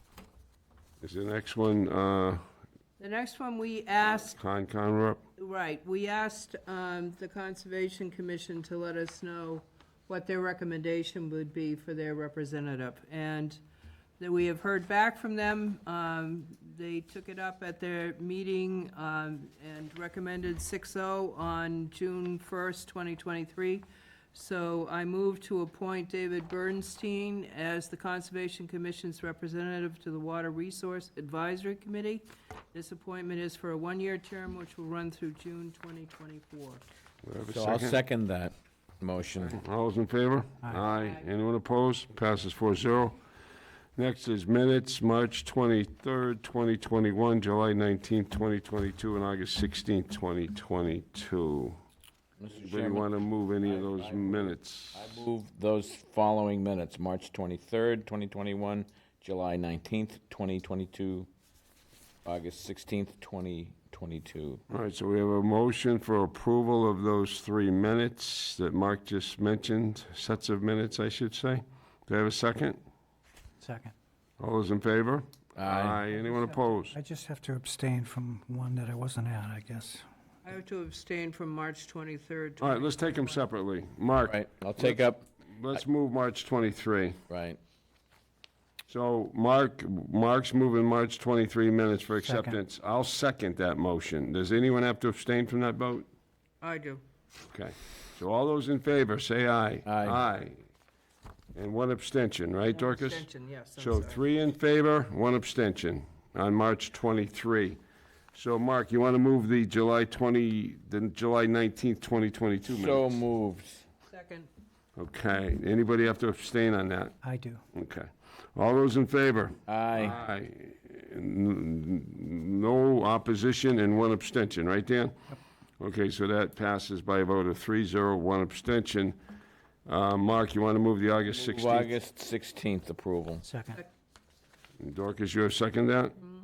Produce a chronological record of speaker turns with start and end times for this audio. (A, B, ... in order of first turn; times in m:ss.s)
0:01.0-0:02.4 A
0:03.0-0:04.4 B
0:04.3-0:05.2 A
0:05.4-0:13.6 B
0:14.2-0:36.8 B
0:37.2-0:38.0 A
0:37.5-0:39.6 C
0:39.4-0:43.2 A
0:40.9-0:41.2 B
0:44.0-0:51.8 A
0:52.4-0:53.1 C
0:52.6-0:55.2 A
0:53.6-1:01.3 C
1:02.2-1:04.6 C
1:04.7-1:12.8 A
1:13.6-1:13.9 D
1:14.4-1:17.0 A
1:15.6-1:16.0 C
1:16.9-1:20.0 D
1:20.4-1:23.4 B
1:22.6-1:27.2 A
1:24.2-1:25.8 C
1:27.3-1:27.6 C
1:28.9-1:36.0 A
1:32.2-1:32.6 D
1:36.6-1:37.0 B
1:37.5-1:40.6 A
1:39.8-1:40.2 C
1:41.5-1:47.8 A
1:42.7-1:44.2 B
1:48.3-1:53.2 A
1:52.7-1:53.9 C
1:54.1-1:54.5 B
1:55.0-1:57.2 A
1:57.2-1:57.6 D
1:57.7-2:05.2 A
1:59.7-2:00.2 C
2:05.8-2:09.2 A
2:09.8-2:11.9 A
2:11.3-2:13.4 C
2:13.4-2:13.8 D
2:14.8-2:16.2 A